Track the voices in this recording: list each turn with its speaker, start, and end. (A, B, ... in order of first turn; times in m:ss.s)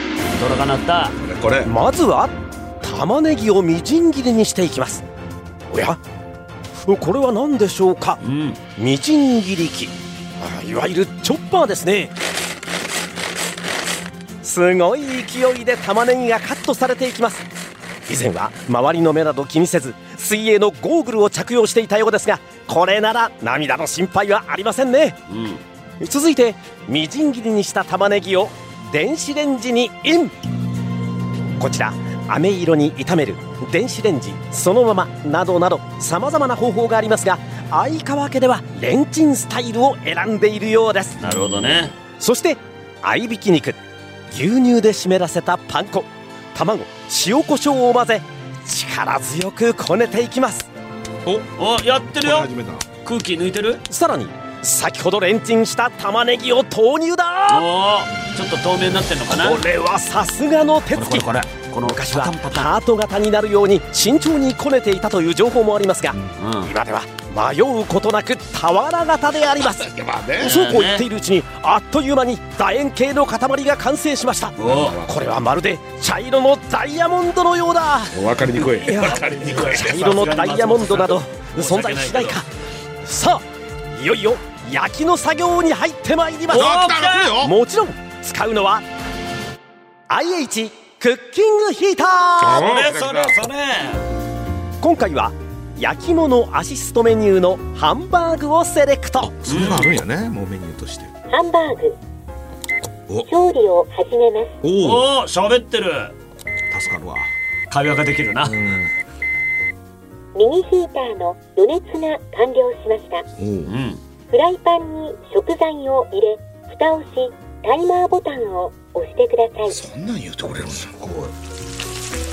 0:00.4-0:01.2 A
0:01.2-0:01.7 B
0:01.6-0:05.0 C
0:05.7-0:06.0 C
0:06.8-0:08.2 C
0:08.2-0:08.6 A
0:08.8-0:12.1 C
0:14.4-0:17.4 C
0:18.1-0:25.2 C
0:25.3-0:25.6 A
0:26.0-0:30.4 C
0:31.6-0:41.2 C
0:41.2-0:41.9 A
0:42.2-0:50.7 C
0:51.2-0:51.5 B
0:51.6-0:52.5 A
0:52.2-0:52.9 B
0:53.0-0:53.8 A
0:53.9-0:57.7 C
0:57.5-0:59.6 A
0:59.3-1:01.3 C
1:00.9-1:02.8 A
1:01.8-1:09.9 C
1:06.4-1:06.7 A
1:09.6-1:10.6 B
1:10.4-1:11.1 A
1:10.4-1:22.5 C
1:14.6-1:15.0 A
1:14.6-1:15.2 B
1:18.1-1:20.3 B
1:19.0-1:22.4 A
1:23.0-1:28.8 C
1:26.5-1:27.3 A
1:26.5-1:27.6 B
1:30.1-1:32.6 C
1:32.4-1:33.4 B
1:32.4-1:34.0 A
1:34.8-1:39.3 C
1:39.2-1:41.1 B
1:39.4-1:39.9 A
1:41.3-1:42.0 D
1:43.2-1:44.6 D
1:44.6-1:45.1 B
1:44.8-1:46.2 A
1:46.7-1:47.3 B
1:47.7-1:48.6 A
1:48.4-1:48.9 B
1:50.4-1:53.2 D
1:53.4-1:53.7 B
1:53.6-1:54.0 A
1:54.3-1:59.8 D
1:59.7-2:01.0 B
2:01.0-2:01.3 A